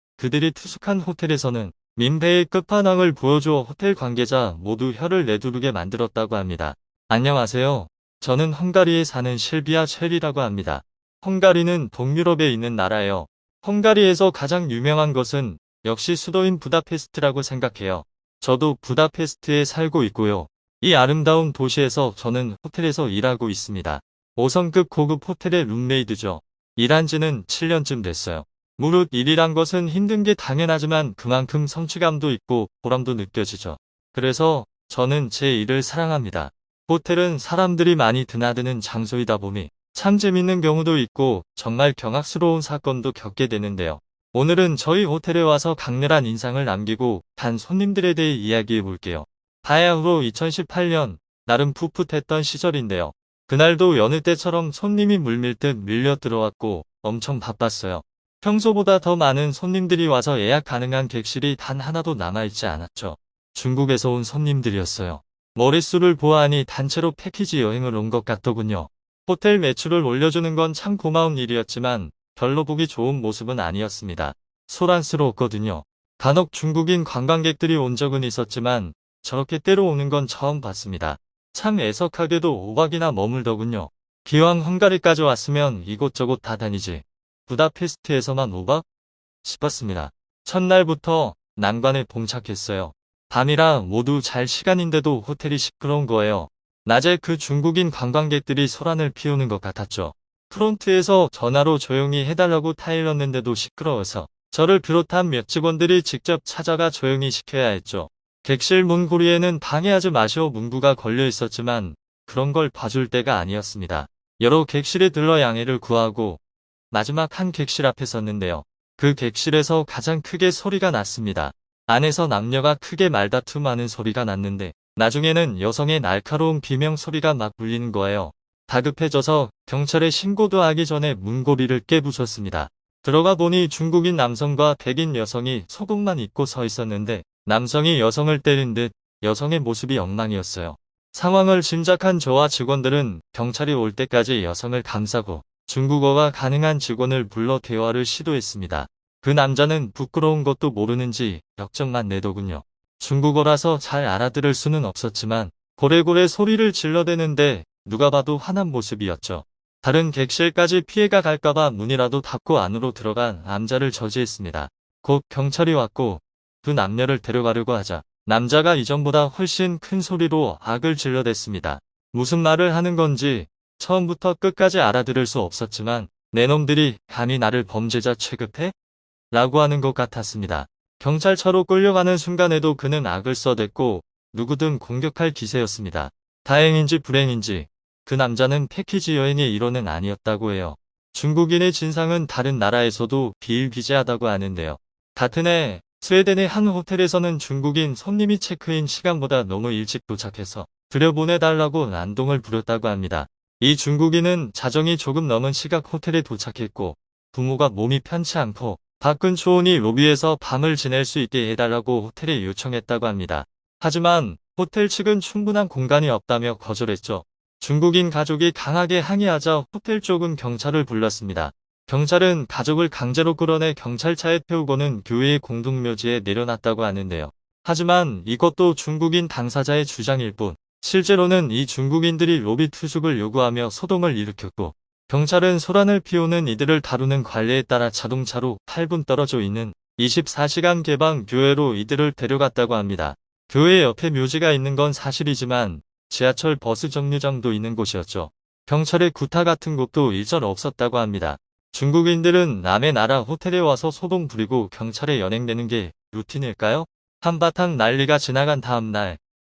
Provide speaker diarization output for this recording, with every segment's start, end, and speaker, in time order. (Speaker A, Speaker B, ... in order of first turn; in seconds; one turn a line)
Speaker A: 0.2-88.8
Speaker A: 89.4-178.7
Speaker A: 179.3-259.2